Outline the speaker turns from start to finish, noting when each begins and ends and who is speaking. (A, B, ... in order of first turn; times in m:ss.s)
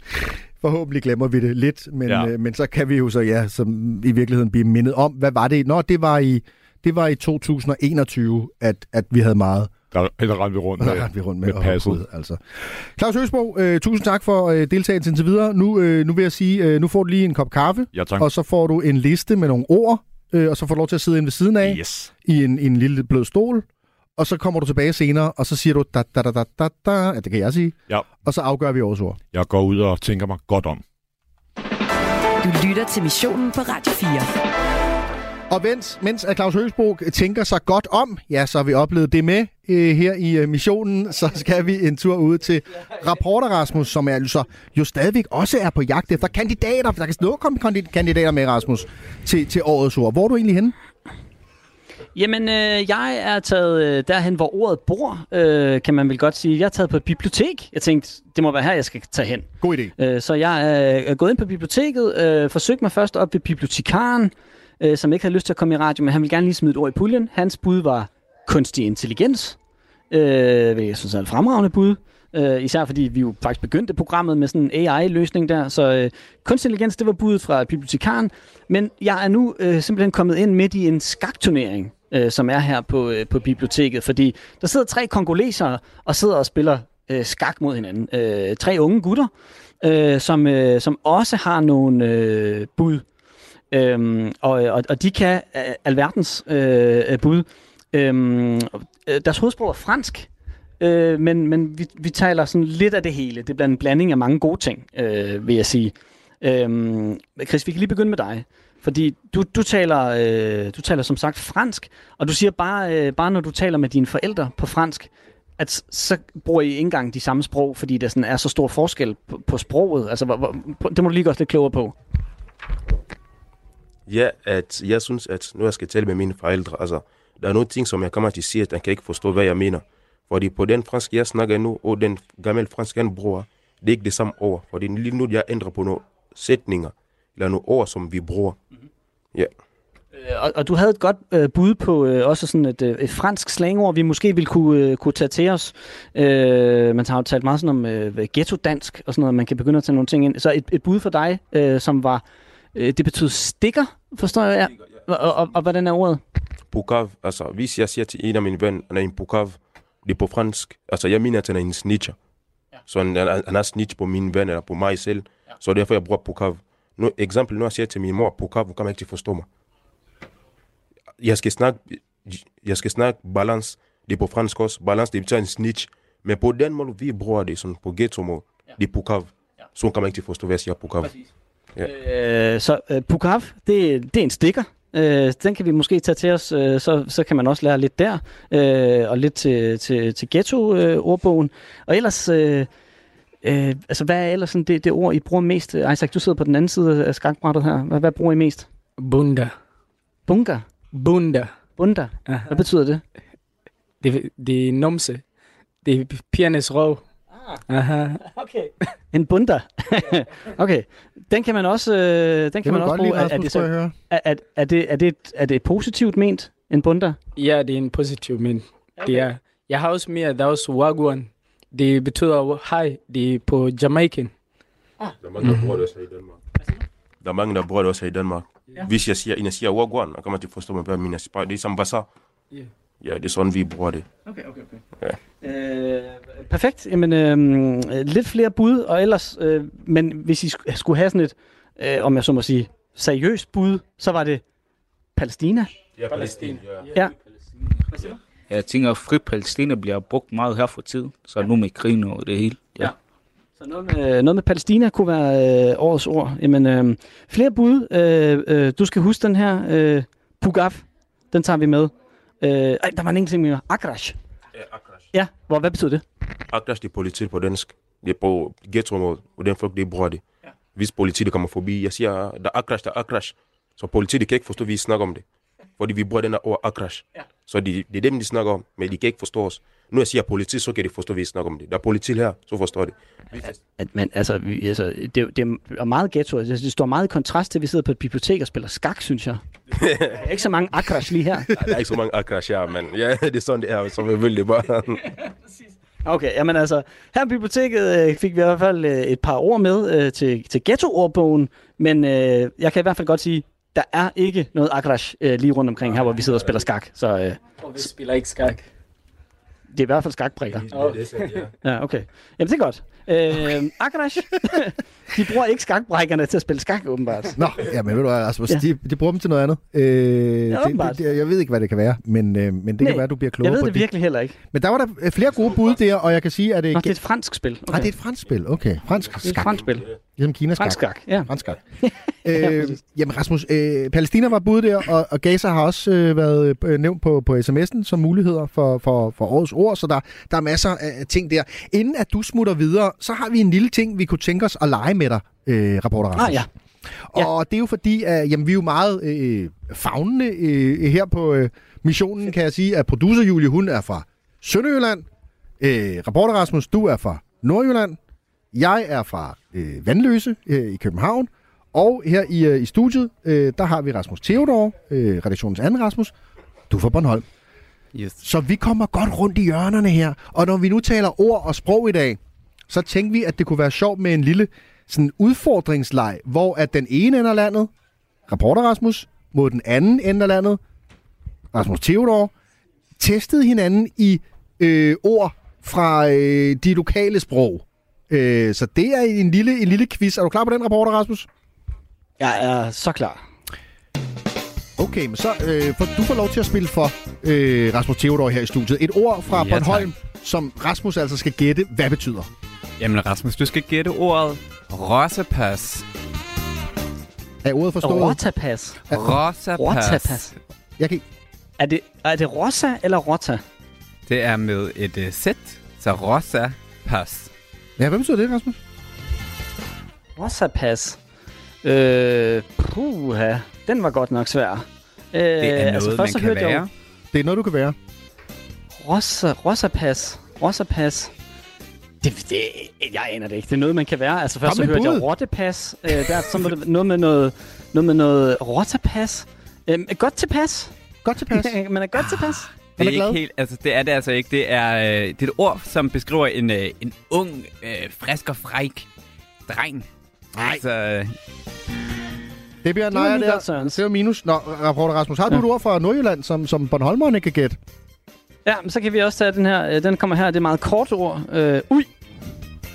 0:00.6-0:09.7 A
0:09.9-0:12.0 B
0:10.8-0:23.7 A
0:17.9-0:18.3 B
0:21.6-0:22.1 B
0:24.2-0:29.2 A
0:29.3-0:30.8 B
0:32.4-0:34.4 C
0:35.5-0:50.8 A
0:52.2-1:09.6 D
0:59.6-0:59.9 A
1:10.1-1:29.3 D
1:29.8-1:33.0 D
1:33.7-2:02.0 D
2:04.1-2:18.6 E
2:20.1-2:32.2 D
2:32.7-2:36.2 D
2:36.7-2:42.2 E
2:42.8-2:49.5 E
2:51.2-3:01.2 E
3:01.8-3:12.7 D
3:13.4-3:18.7 D
3:19.0-3:19.6 F
3:20.3-3:20.7 D
3:20.9-3:21.6 F
3:21.8-3:23.0 D
3:22.3-3:22.6 F
3:24.0-3:25.2 F
3:25.8-3:27.0 F
3:27.7-3:28.2 F
3:28.3-3:37.2 D
3:32.6-3:33.9 A
3:37.4-3:44.3 F
3:45.2-3:46.4 E
3:45.4-3:45.7 F
3:47.2-3:52.1 E
3:53.0-3:54.1 E
3:55.4-4:04.4 D
4:05.2-4:05.7 D
4:06.1-4:06.6 F
4:08.5-4:12.9 G
4:13.6-4:24.2 D
4:25.1-4:26.0 D
4:26.5-4:35.2 E
4:35.8-4:43.5 E
4:43.8-4:49.4 D
4:49.8-4:50.1 E
4:50.1-4:51.5 D
4:51.6-4:55.1 E
4:56.0-5:07.4 D
5:07.6-5:08.7 F
5:09.7-5:10.7 D
5:10.7-5:11.5 F
5:11.6-5:17.4 D
5:17.4-5:23.9 A
5:20.5-5:21.0 D
5:22.8-5:24.4 D
5:24.5-5:27.0 A
5:26.7-5:27.9 D
5:27.7-5:31.6 A
5:29.2-5:29.9 D
5:30.6-5:32.8 D
5:32.2-5:46.5 A
5:46.2-5:46.5 D
5:47.1-5:55.1 A
5:55.6-5:58.0 A
5:58.5-6:06.1 A
6:06.7-6:07.2 A
6:07.9-6:08.2 H
6:08.2-6:17.7 A
6:18.3-6:20.6 A
6:21.5-6:22.3 A
6:23.0-6:31.3 A
6:32.2-6:33.2 D
6:34.8-6:42.3 A
6:39.3-6:39.9 H
6:42.8-6:45.8 H
6:47.4-6:48.2 A
6:47.8-6:48.9 D
6:48.9-6:49.2 A
6:48.9-6:50.3 H
6:49.6-6:50.4 D
6:50.8-6:51.0 A
6:51.6-6:53.4 D
6:54.1-6:57.3 H
6:57.8-6:58.6 A
7:00.2-7:01.0 D
7:01.6-7:06.6 D
7:05.4-7:06.7 H
7:07.1-7:07.8 A
7:08.8-7:11.1 D
7:12.0-7:20.7 D
7:14.4-7:15.1 A
7:21.0-7:21.5 A
7:21.3-7:22.5 D
7:22.2-7:28.9 H
7:22.8-7:23.2 A
7:29.5-7:29.9 H
7:30.4-7:30.6 A
7:30.4-7:31.1 H
7:32.6-7:37.6 A
7:32.9-7:33.8 D
7:38.5-7:41.9 D